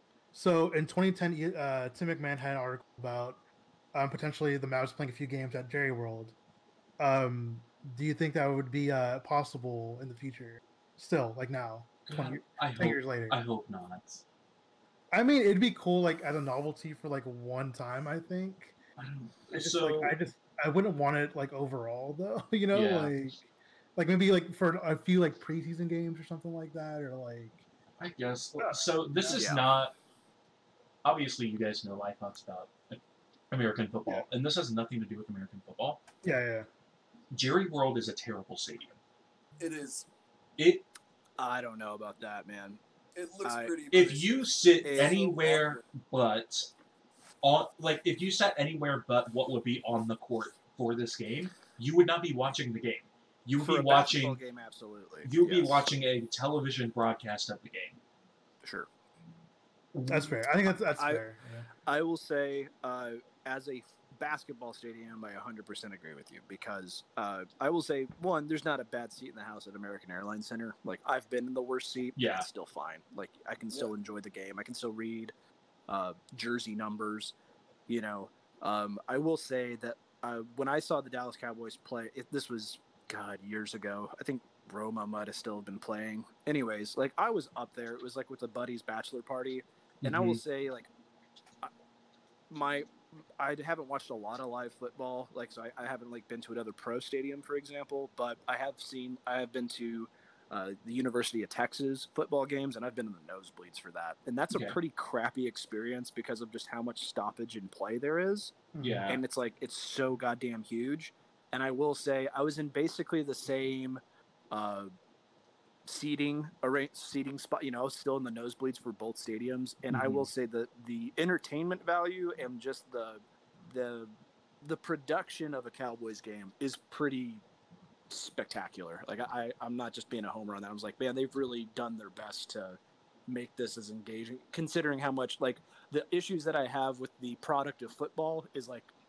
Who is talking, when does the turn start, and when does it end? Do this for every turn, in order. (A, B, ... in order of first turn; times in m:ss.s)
0:00.3-0:03.4 A
0:03.9-0:06.3 A
0:07.0-0:13.4 A
0:12.0-0:14.2 B
0:15.1-0:18.7 A
0:19.0-0:20.1 B
0:19.5-0:23.4 A
0:22.7-0:23.2 B
0:24.0-0:27.6 A
0:28.0-0:29.9 B
0:28.6-0:29.6 A
0:29.3-0:29.6 C
0:31.0-0:33.0 B
0:33.5-0:36.0 B
0:36.2-0:36.7 A
0:37.3-0:39.0 B
0:39.6-0:40.1 D
0:40.6-0:40.9 B
0:41.4-0:42.8 C
0:43.1-0:45.8 D
0:43.4-0:43.7 C
0:43.9-0:46.7 B
0:44.8-0:45.2 C
0:47.4-0:54.4 B
0:53.6-0:55.9 C
0:55.2-0:58.0 B
0:59.9-1:00.4 B
1:00.1-1:01.7 A
1:01.0-1:01.2 C
1:01.8-1:15.3 C
1:12.2-1:12.5 B
1:15.9-1:17.3 C
1:17.9-1:30.9 C
1:30.0-1:30.4 B
1:32.5-1:48.6 C
1:44.5-1:44.8 B
1:48.7-1:49.1 A
1:48.8-1:49.2 B
1:49.1-1:54.9 C
1:55.8-2:07.4 C
1:59.9-2:00.3 B
2:08.1-2:18.9 C